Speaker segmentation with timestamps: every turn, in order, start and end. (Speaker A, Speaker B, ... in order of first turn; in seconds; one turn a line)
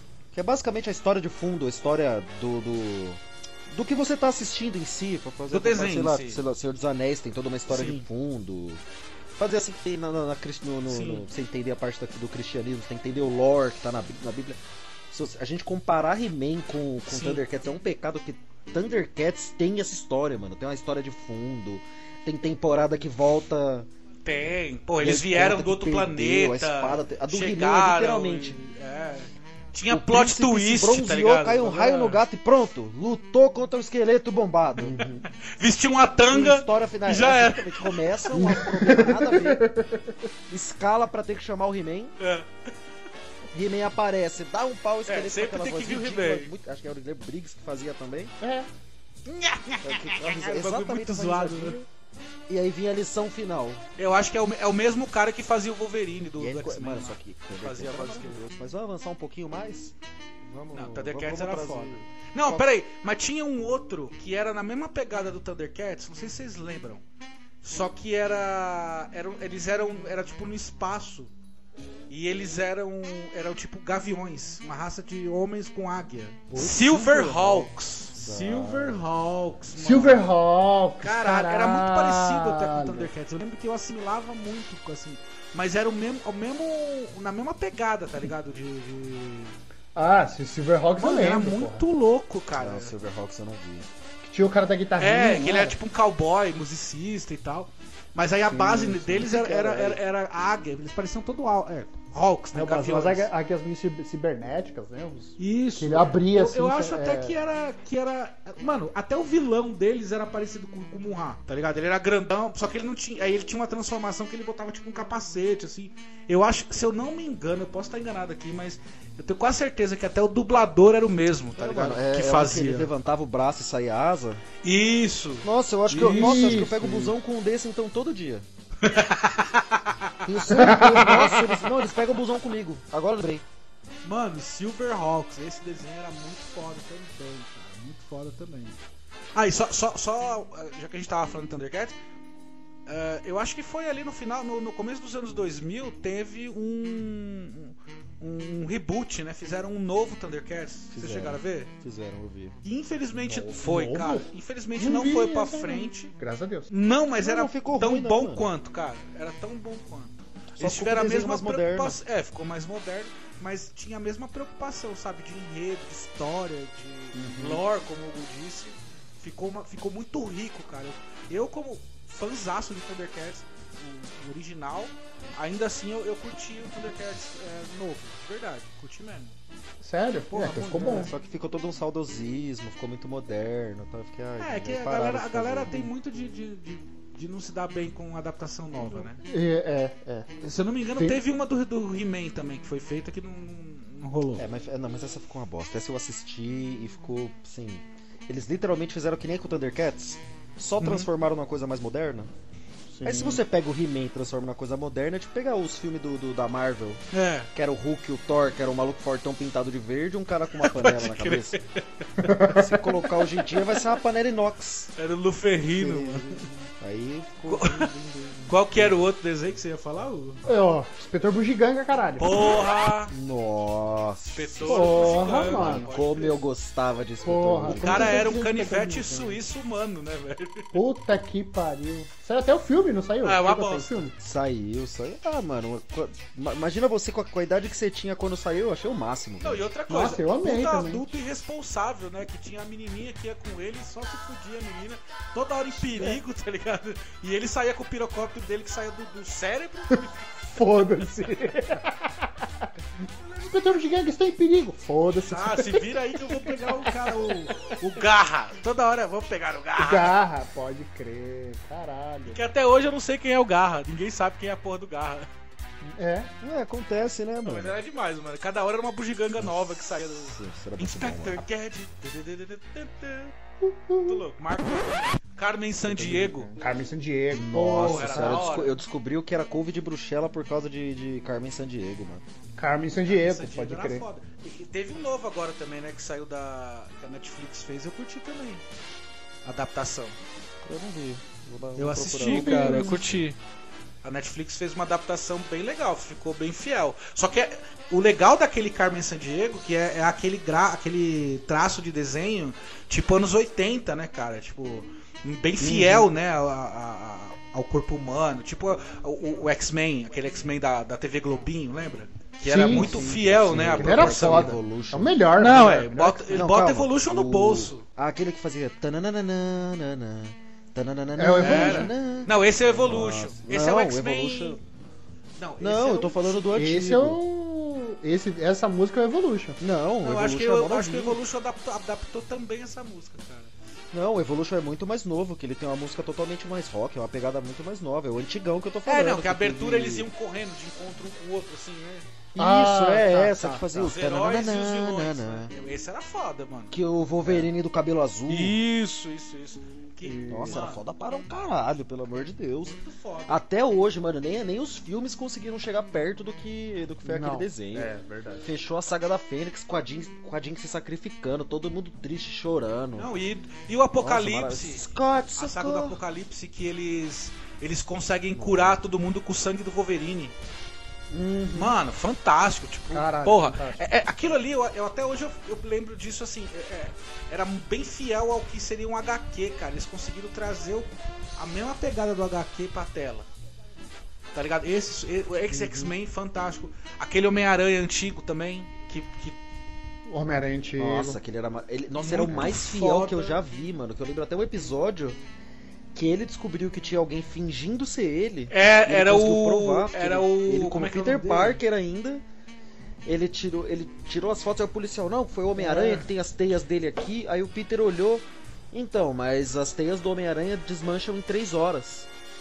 Speaker A: 0.3-8.8
Speaker B: 5.5-6.4
Speaker B: 7.7-8.0
Speaker A: 9.4-14.6
Speaker B: 10.9-11.2
Speaker A: 15.1-23.9
Speaker B: 17.1-17.4
Speaker B: 24.2-32.2
Speaker A: 25.0-28.6
Speaker A: 29.9-35.1
Speaker C: 34.8-35.2
Speaker B: 35.4-38.6
Speaker A: 36.3-39.7
Speaker C: 38.4-40.1
Speaker A: 40.5-42.1
Speaker B: 42.2-42.5
Speaker A: 43.5-48.3
Speaker B: 45.1-46.5
Speaker C: 48.4-48.7
Speaker B: 49.2-51.8
Speaker A: 49.8-51.8
Speaker A: 52.5-53.8
Speaker B: 54.0-58.4
Speaker A: 56.4-62.7
Speaker B: 60.7-67.0
Speaker B: 67.6-71.3
Speaker B: 72.1-80.3
Speaker C: 76.5-77.7
Speaker A: 78.1-79.0
Speaker C: 79.8-83.1
Speaker B: 81.0-89.6
Speaker C: 89.9-91.8
Speaker B: 91.0-92.9
Speaker A: 92.5-93.9
Speaker C: 94.2-95.8
Speaker B: 95.0-103.3
Speaker C: 98.5-100.0
Speaker C: 102.5-107.3
Speaker B: 105.4-122.9
Speaker A: 121.5-124.4
Speaker B: 124.6-126.7
Speaker A: 125.4-128.4
Speaker C: 125.9-127.1
Speaker B: 128.8-130.1
Speaker A: 130.2-133.4
Speaker C: 130.5-131.6
Speaker B: 134.0-138.8
Speaker B: 139.3-141.9
Speaker B: 142.8-151.7
Speaker A: 150.9-152.6
Speaker B: 152.6-156.1
Speaker C: 153.2-154.3
Speaker C: 154.8-156.7
Speaker B: 156.7-179.3
Speaker A: 157.2-158.5
Speaker A: 160.6-162.0
Speaker C: 167.1-167.6
Speaker C: 179.8-181.1
Speaker B: 180.3-181.1
Speaker A: 180.4-185.7
Speaker B: 184.4-189.2
Speaker C: 189.2-190.3
Speaker B: 190.4-194.4
Speaker A: 194.4-202.3
Speaker B: 200.8-201.1
Speaker C: 202.9-203.4
Speaker A: 203.0-207.0
Speaker B: 207.1-207.5
Speaker A: 207.5-211.6
Speaker B: 210.5-212.5
Speaker C: 212.2-212.8
Speaker A: 212.5-214.9
Speaker B: 213.4-213.9
Speaker B: 215.0-216.5
Speaker A: 215.7-219.0
Speaker B: 217.5-217.9
Speaker B: 218.5-220.4
Speaker C: 220.4-222.4
Speaker B: 222.2-223.1
Speaker A: 223.1-228.4
Speaker B: 224.3-226.4
Speaker C: 224.6-225.9
Speaker C: 227.2-229.4
Speaker B: 227.6-230.7
Speaker C: 230.7-234.1
Speaker B: 233.2-234.1
Speaker A: 234.2-239.6
Speaker B: 239.4-250.8
Speaker C: 239.9-241.1
Speaker C: 250.5-252.7
Speaker B: 253.2-253.8
Speaker C: 253.4-257.5
Speaker B: 255.2-260.1
Speaker C: 259.8-262.5
Speaker B: 262.3-265.3
Speaker C: 265.9-266.3
Speaker A: 266.4-267.8
Speaker B: 267.4-273.3
Speaker A: 269.4-271.5
Speaker C: 273.6-274.2
Speaker B: 274.0-276.5
Speaker C: 275.9-278.5
Speaker A: 277.3-282.2
Speaker B: 277.7-278.8
Speaker C: 282.6-284.0
Speaker B: 283.1-288.6
Speaker B: 289.4-290.1
Speaker A: 290.6-293.0
Speaker B: 291.8-293.4
Speaker C: 292.2-293.1
Speaker B: 294.0-314.6
Speaker C: 305.6-306.1
Speaker C: 312.4-316.4
Speaker A: 312.6-315.2
Speaker B: 315.4-317.8
Speaker A: 316.3-324.6
Speaker C: 321.2-321.9
Speaker B: 321.4-324.6
Speaker B: 325.4-326.5
Speaker A: 325.6-327.2
Speaker C: 326.5-329.6
Speaker A: 329.6-331.2
Speaker B: 330.0-333.5
Speaker A: 333.9-340.1
Speaker B: 338.9-342.1
Speaker A: 342.3-345.5
Speaker C: 342.4-343.8
Speaker B: 343.8-346.7
Speaker A: 346.7-348.6
Speaker B: 348.3-350.8
Speaker C: 350.0-350.6
Speaker A: 350.3-352.8
Speaker B: 352.6-353.4
Speaker A: 353.3-357.9
Speaker C: 357.0-358.4
Speaker A: 358.4-363.1
Speaker B: 362.9-364.8
Speaker A: 364.0-366.0
Speaker B: 365.4-370.3
Speaker A: 368.4-368.8
Speaker C: 371.1-371.8
Speaker B: 371.5-383.3
Speaker C: 372.9-373.8
Speaker B: 384.3-389.4
Speaker C: 385.5-385.9
Speaker C: 390.1-391.2
Speaker A: 390.8-395.2
Speaker B: 392.0-393.4
Speaker A: 395.9-402.2
Speaker B: 398.5-401.6
Speaker A: 403.0-412.1
Speaker C: 405.6-406.0